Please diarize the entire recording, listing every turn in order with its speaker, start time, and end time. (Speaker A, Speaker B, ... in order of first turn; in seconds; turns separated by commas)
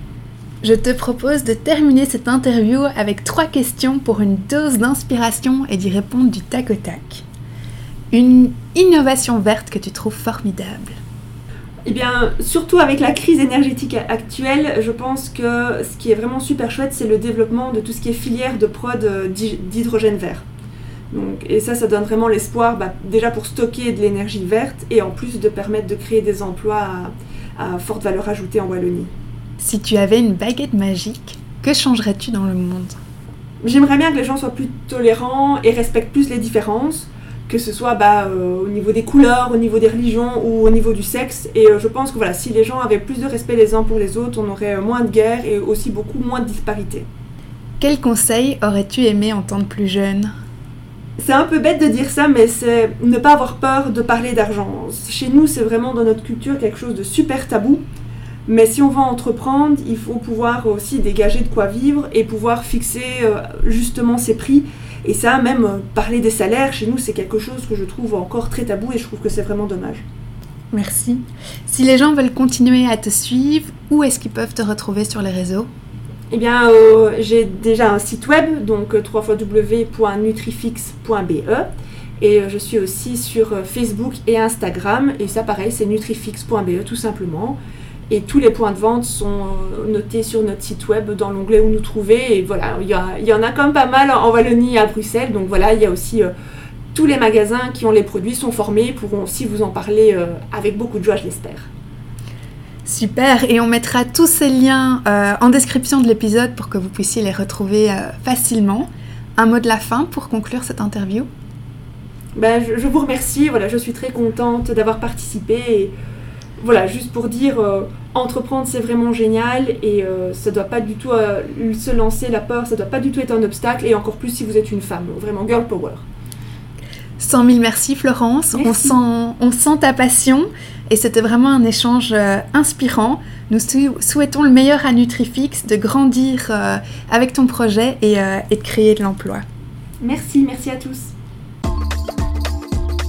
Speaker A: 0.6-7.2, Speaker A: 8.1-11.0, Speaker B: 11.8-20.4, Speaker B: 21.1-29.1, Speaker A: 29.6-33.0, Speaker B: 33.6-47.1, Speaker A: 47.8-50.3, Speaker B: 51.2-57.8, Speaker B: 58.5-70.0, Speaker A: 70.7-75.7, Speaker B: 76.3-81.7, Speaker B: 82.2-87.6, Speaker B: 88.1-96.3, Speaker B: 96.9-101.7, Speaker A: 102.8-111.3, Speaker B: 112.3-115.9, Speaker B: 116.6-126.0, Speaker A: 127.2-139.4, Speaker B: 128.5-128.9, Speaker B: 140.0-141.1